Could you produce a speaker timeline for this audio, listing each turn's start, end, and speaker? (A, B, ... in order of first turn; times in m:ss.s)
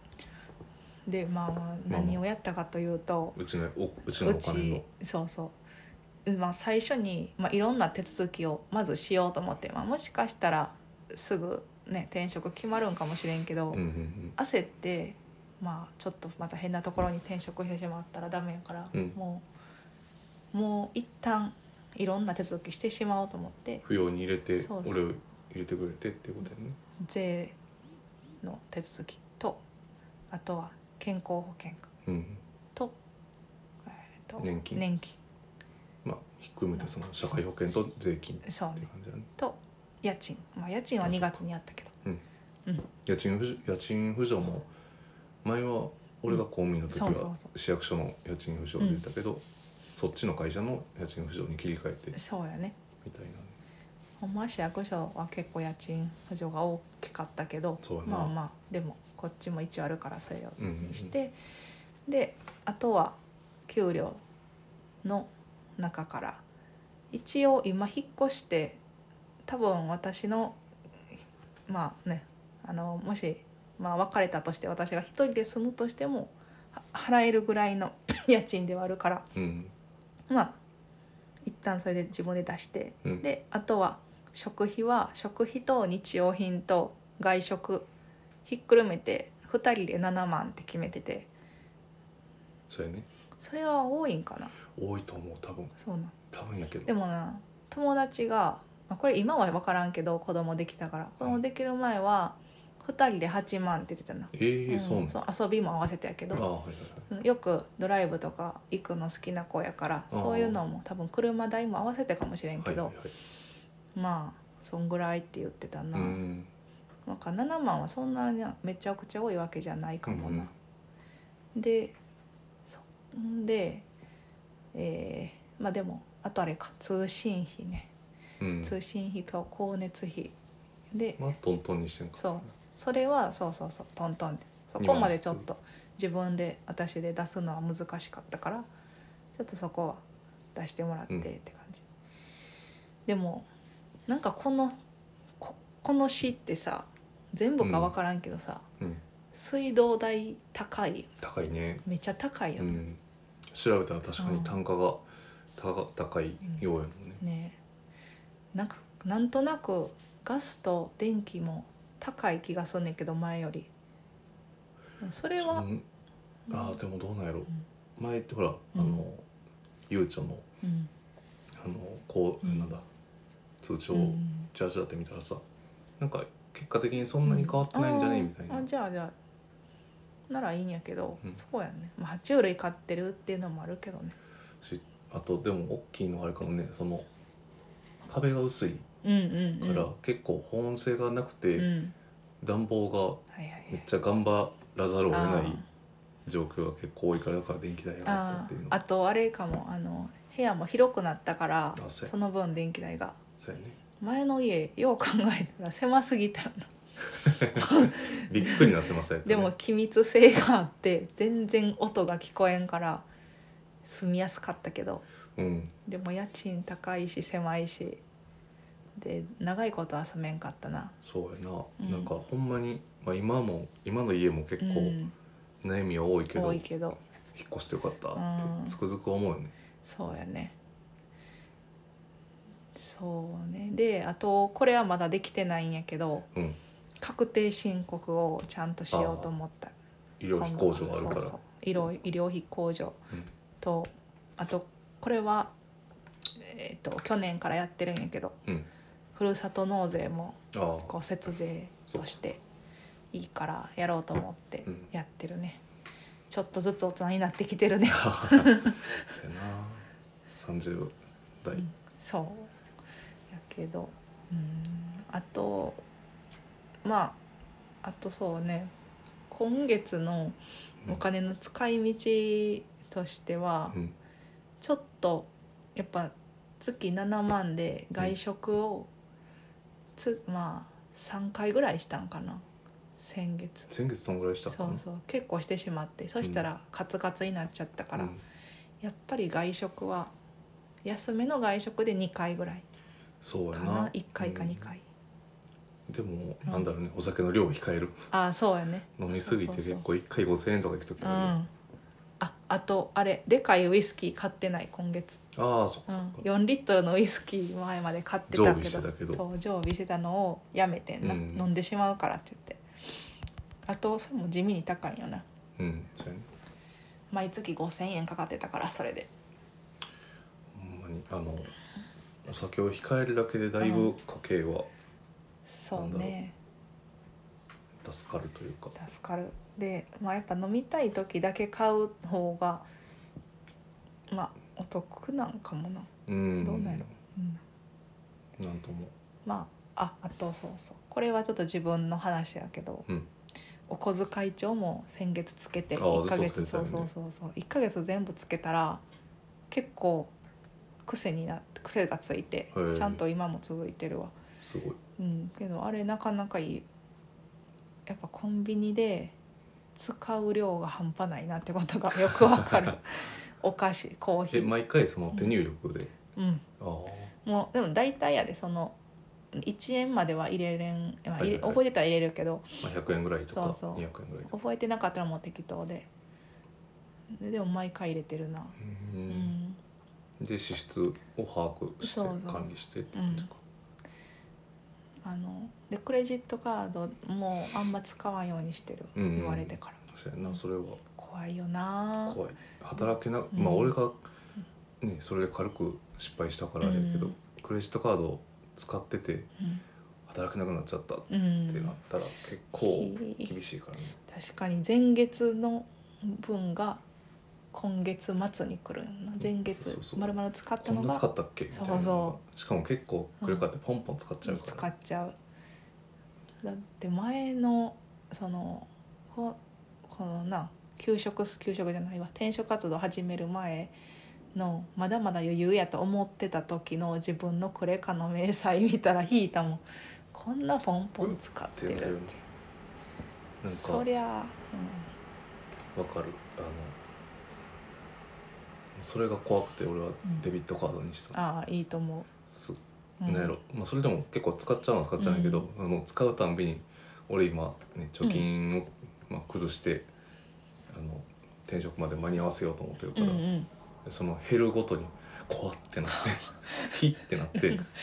0:01.1-0:03.4 A
0:01.9-0:02.2 B
0:03.3-0:04.8 B
0:04.2-0:05.6 A
0:06.2-0:13.8 A
0:13.7-0:14.4 B
0:14.4-0:19.4 A
0:20.5-0:23.8 A
0:23.8-0:26.8 B
0:24.5-0:25.0 A
0:27.0-0:27.5 A
0:28.4-0:29.6 A
0:30.3-0:31.9 A
0:32.0-0:32.4 B
0:33.8-0:35.2 A
0:34.4-0:34.8 B
0:36.0-0:39.3 B
0:36.8-0:37.4 A
0:38.4-0:41.9 A
0:41.0-0:41.4 B
0:43.0-0:44.7 B
0:45.4-0:49.4 B
0:46.9-0:47.5 A
0:48.8-0:49.0 A
0:50.0-0:52.2 B
0:52.1-0:52.8 A
0:53.0-0:53.5 B
0:54.2-1:01.4 A
0:57.8-0:58.3 B
1:00.6-1:01.2 B
1:02.0-1:04.2 A
1:05.0-1:06.4 A
1:07.1-1:08.8 A
1:09.4-1:10.6 A
1:11.7-1:19.3 A
1:19.3-1:19.7 B
1:20.3-1:20.6 A
1:21.4-1:27.9 A
1:28.4-1:31.3 A
1:32.7-1:33.1 B
1:33.4-1:34.5 A
1:34.7-1:35.7 B
1:35.8-1:36.1 A
1:36.3-1:36.9 B
1:36.8-1:46.4 A
1:44.3-1:45.2 B
1:46.3-1:47.1 B
1:47.1-1:52.9 A
1:50.1-1:50.6 B
1:52.6-1:53.1 B
1:53.9-1:56.2 A
1:55.9-1:56.5 B
1:57.0-2:00.5 A
2:00.0-2:00.5 B
2:01.5-2:02.0 A
2:02.7-2:03.8 A
2:04.7-2:07.9 A
2:08.4-2:08.8 B
2:08.6-2:10.3 A
2:10.9-2:11.2 A
2:11.2-2:12.4 B
2:12.2-2:18.7 A
2:14.8-2:15.4 B
2:19.3-2:20.0 A
2:20.5-2:21.8 A
2:23.0-2:23.5 A
2:24.1-2:24.8 A
2:25.4-2:28.6 A
2:27.6-2:27.9 B
2:29.3-2:31.1 A
2:31.2-2:31.8 B
2:31.8-2:32.8 A
2:32.6-2:33.0 B
2:33.5-2:35.0 B
2:34.2-2:34.6 A
2:35.6-2:37.2 B
2:37.2-2:37.6 A
2:38.5-2:43.7 A
2:45.0-2:45.6 A
2:45.4-2:45.8 B
2:46.5-2:46.8 A
2:46.5-2:49.2 B
2:48.7-2:49.0 A
2:49.9-2:50.4 B
2:50.6-2:50.9 A
2:51.6-2:52.8 B
2:52.4-2:52.8 A
2:53.6-2:55.4 B
2:53.9-2:54.5 A
2:56.0-2:58.7 B
2:57.2-2:59.1 A
3:00.3-3:04.2 A
3:04.6-3:07.1 B
3:08.0-3:08.8 B
3:09.0-3:09.9 A
3:09.6-3:11.7 B
3:11.5-3:11.9 A
3:12.4-3:15.6 B
3:13.3-3:13.8 A
3:15.1-3:15.6 A
3:16.2-3:18.8 B
3:18.0-3:23.2 A
3:21.8-3:22.1 B
3:23.4-3:23.8 B
3:24.0-3:26.7 A
3:27.2-3:29.5 B
3:27.5-3:28.7 A
3:29.2-3:33.0 A
3:33.8-3:35.0 A
3:35.4-3:35.7 B
3:35.8-3:38.0 A
3:39.0-3:41.0 A
3:41.0-3:45.0 B
3:41.8-3:42.1 A
3:44.6-3:45.1 A
3:45.6-3:46.6 B
3:46.3-3:47.0 A
3:47.3-3:49.5 B
3:48.1-3:48.8 A
3:49.8-3:50.5 A
3:52.7-3:56.3 A
3:57.0-3:59.7 A
3:58.9-3:59.3 B
4:00.2-4:01.4 B
4:00.3-4:03.0 A
4:03.6-4:05.5 A
4:06.4-4:08.4 A
4:09.1-4:12.4 A
4:10.5-4:10.9 B
4:13.1-4:15.6 A
4:16.3-4:19.0 A
4:17.9-4:21.6 B
4:21.5-4:22.5 A
4:23.3-4:25.8 A
4:26.8-4:27.2 A
4:27.8-4:28.7 A
4:29.3-4:33.8 A
4:34.6-4:38.9 A
4:40.0-4:42.4 A
4:43.0-4:43.7 A
4:43.7-4:44.8 B
4:44.5-4:48.1 A
4:48.0-4:48.2 B
4:48.8-4:50.1 A
4:50.8-4:52.6 A
4:53.2-4:54.7 B
4:53.5-4:54.8 A
4:55.9-4:58.0 B
4:58.1-4:59.8 A
4:59.0-5:01.4 B
5:01.0-5:01.5 A
5:02.2-5:05.2 A
5:05.3-5:06.2 B
5:05.9-5:12.6 A
5:08.3-5:09.2 B
5:11.0-5:11.5 B
5:13.7-5:15.2 A
5:15.6-5:16.3 B
5:17.1-5:19.1 A
5:20.5-5:21.5 B
5:22.2-5:24.7 B
5:23.6-5:23.9 A
5:25.5-5:26.3 A
5:25.7-5:26.2 B
5:27.8-5:28.8 B
5:28.8-5:32.6 A
5:34.1-5:37.4 A
5:36.0-5:36.9 B
5:38.4-5:38.9 B
5:39.2-5:42.8 A
5:43.7-5:48.8 A
5:45.7-5:46.9 B
5:49.5-5:50.1 A
5:50.8-5:54.1 A
5:52.5-5:53.0 B
5:54.4-5:54.8 B
5:55.0-5:56.6 A
5:57.9-5:59.1 A
5:59.7-6:04.5 A
6:04.3-6:06.0 B
6:06.2-6:06.4 A
6:06.6-6:07.1 B
6:07.2-6:08.8 A
6:09.3-6:12.6 A
6:11.2-6:11.6 B
6:12.6-6:14.3 B
6:13.3-6:15.9 A
6:17.1-6:18.6 A
6:18.6-6:19.3 B
6:19.1-6:19.6 A
6:20.2-6:23.4 B
6:21.8-6:23.3 A
6:25.0-6:30.4 A
6:28.9-6:30.8 B
6:31.0-6:32.2 A
6:32.0-6:34.0 B
6:33.3-6:33.8 A
6:34.8-6:39.3 B
6:36.6-6:37.2 A
6:40.1-6:44.0 B
6:41.1-6:41.8 A
6:42.6-6:43.3 A
6:44.1-6:46.8 A
6:47.5-6:52.2 A
6:49.2-6:54.7 B
6:54.2-6:55.1 A
6:56.4-7:03.7 A
7:04.3-7:12.2 A
7:11.0-7:12.1 B
7:13.4-7:13.9 B
7:13.5-7:14.9 A
7:15.7-7:16.8 B
7:18.8-7:21.2 B
7:21.1-7:22.1 A
7:22.3-7:29.9 B
7:23.0-7:23.3 A
7:25.0-7:25.5 A
7:28.0-7:28.3 A
7:30.7-7:33.2 B
7:32.9-7:33.5 A
7:33.8-7:37.7 B